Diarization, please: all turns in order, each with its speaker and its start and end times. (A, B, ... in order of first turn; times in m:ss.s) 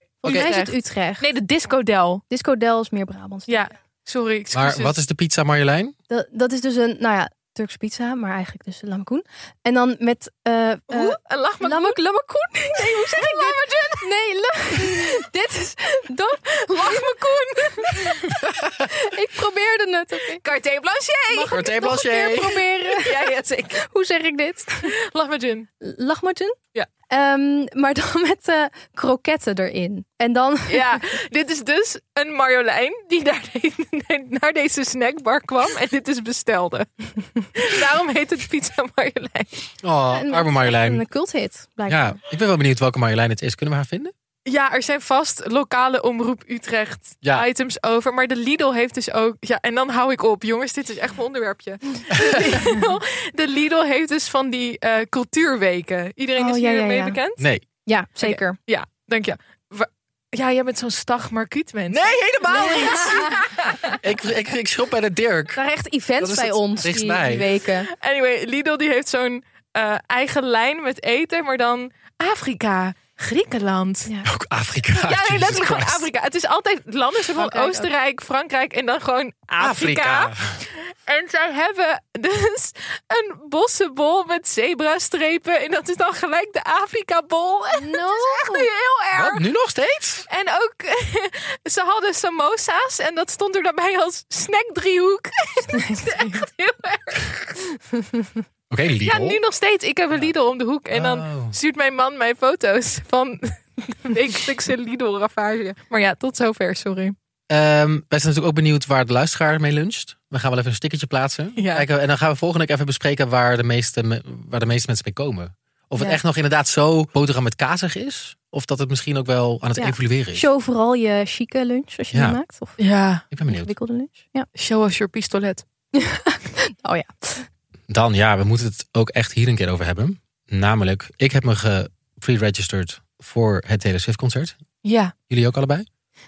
0:00.2-0:01.2 A
0:00.2-0:02.2 B
0:02.3-0:03.7 A
0:03.5-0:05.0 B
0:04.5-0:05.9 C
0:06.1-0:17.2 A
0:10.9-0:12.0 B
0:12.8-0:14.0 B
0:14.8-0:15.2 B
0:16.6-0:18.2 B
0:17.8-0:18.3 A
0:18.4-0:18.9 C
0:18.9-0:20.4 A
0:20.4-0:21.6 B
0:21.3-0:23.3 A
0:21.5-0:22.6 C
0:22.9-0:23.8 B
0:23.8-0:24.9 A
0:24.8-0:25.7 B
0:25.8-0:26.6 A
0:27.1-0:31.0 A
0:30.7-0:36.9 B
0:37.5-0:39.7 B
0:39.8-0:41.0 C
0:40.1-0:42.2 A
0:41.9-0:44.1 C
0:44.4-0:57.4 B
0:52.2-0:52.5 C
0:56.4-0:57.2 A
0:57.4-0:57.6 C
0:57.8-0:58.6 A
0:58.2-1:03.9 B
1:01.9-1:03.4 C
1:02.6-1:03.3 A
1:04.0-1:05.6 C
1:05.5-1:07.9 A
1:06.2-1:07.5 C
1:07.9-1:14.1 B
1:14.2-1:16.1 C
1:14.9-1:29.4 B
1:17.4-1:17.9 A
1:19.6-1:20.6 C
1:27.8-1:28.7 A
1:29.1-1:30.2 C
1:30.3-1:37.6 B
1:35.7-1:36.4 A
1:38.7-1:39.4 C
1:39.0-1:47.1 B
1:40.9-1:41.5 C
1:47.5-2:00.5 C
1:51.6-1:51.9 B
1:59.8-2:02.8 A
2:02.1-2:02.4 C
2:02.8-2:03.2 B
2:03.3-2:03.7 C
2:03.4-2:04.5 A
2:04.6-2:05.6 B
2:05.9-2:07.4 A
2:07.9-2:14.6 C
2:14.8-2:15.1 B
2:15.3-2:15.8 C